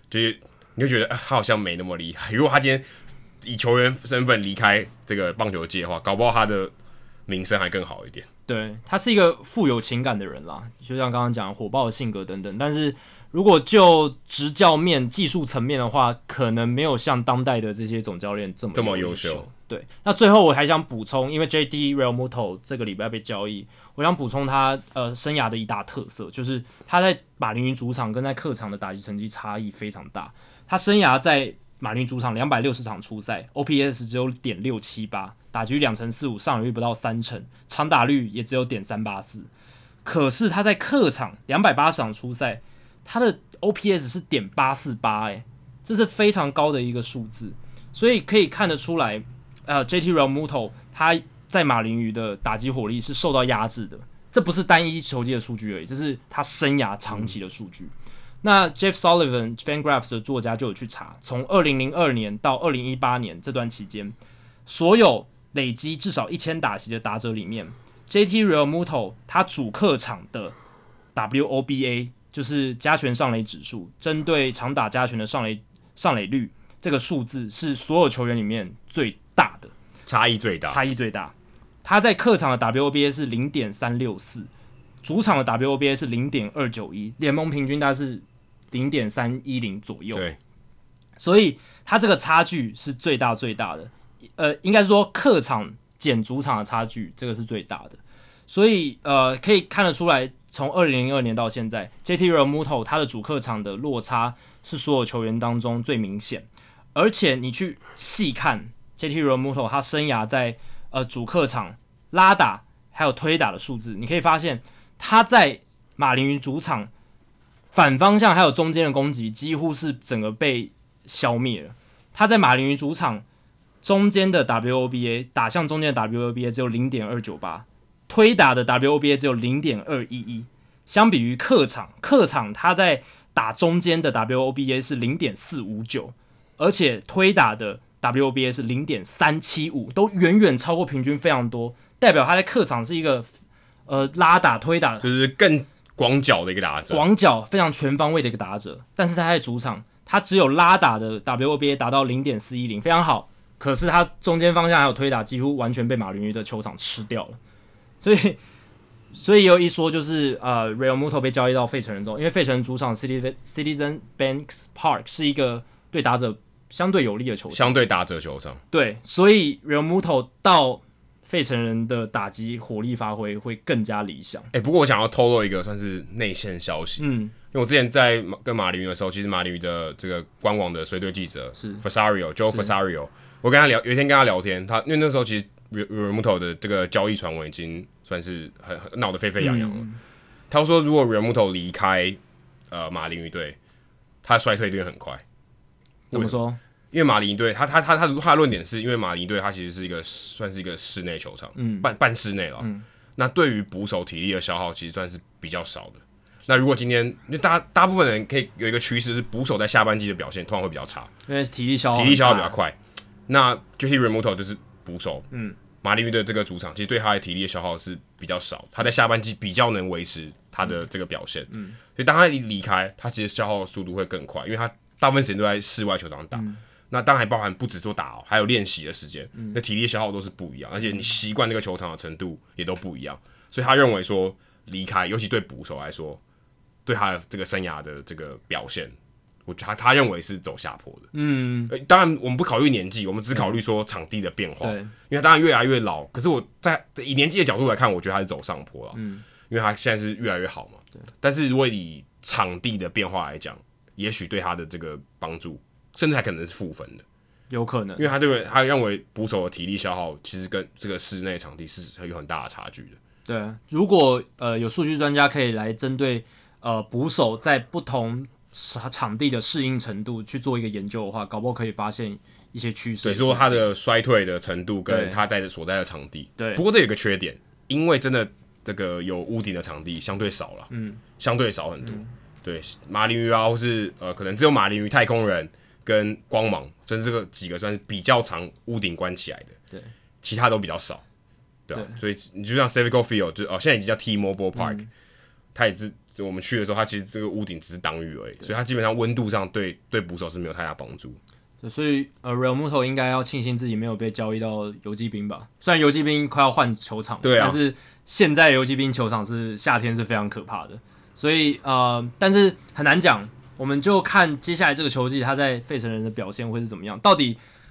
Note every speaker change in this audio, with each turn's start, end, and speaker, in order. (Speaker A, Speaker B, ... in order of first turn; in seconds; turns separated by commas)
Speaker A: 0.1-2.8, Speaker A: 3.4-6.7, Speaker A: 7.3-8.3, Speaker B: 8.5-39.5, Speaker A: 18.7-19.4, Speaker B: 40.0-70.5, Speaker B: 71.1-79.7, Speaker A: 80.0-80.8, Speaker B: 80.7-84.5, Speaker B: 85.0-90.2, Speaker B: 91.2-116.9, Speaker B: 117.7-123.2, Speaker B: 123.8-143.3, Speaker B: 143.9-145.1, Speaker A: 145.0-147.0, Speaker B: 146.9-157.4, Speaker B: 158.0-158.4, Speaker B: 159.1-167.8, Speaker A: 167.5-168.6, Speaker B: 168.7-174.5, Speaker A: 174.5-189.8, Speaker B: 177.0-177.3, Speaker B: 181.6-181.8, Speaker B: 189.4-190.0, Speaker A: 190.5-192.2, Speaker A: 192.7-193.6, Speaker A: 194.2-195.2, Speaker A: 196.1-196.4, Speaker B: 196.1-196.6, Speaker A: 196.9-211.1, Speaker B: 201.6-201.9, Speaker B: 202.6-202.8, Speaker B: 211.3-212.6, Speaker A: 211.9-212.8, Speaker A: 213.3-215.3, Speaker B: 215.3-215.6, Speaker A: 215.8-236.2, Speaker B: 221.5-221.8, Speaker B: 226.3-226.6, Speaker A: 236.8-238.9, Speaker A: 239.4-241.1, Speaker B: 241.1-241.7, Speaker A: 241.7-257.0, Speaker B: 244.6-244.9, Speaker B: 248.9-249.2, Speaker B: 257.5-258.1, Speaker A: 258.0-263.0, Speaker B: 263.2-273.7, Speaker A: 273.0-289.5, Speaker B: 274.9-275.2, Speaker B: 276.4-276.6, Speaker B: 280.7-281.0, Speaker A: 290.2-291.0, Speaker A: 291.7-294.8, Speaker B: 294.6-294.9, Speaker A: 295.5-301.2, Speaker B: 301.6-317.4, Speaker A: 307.2-307.6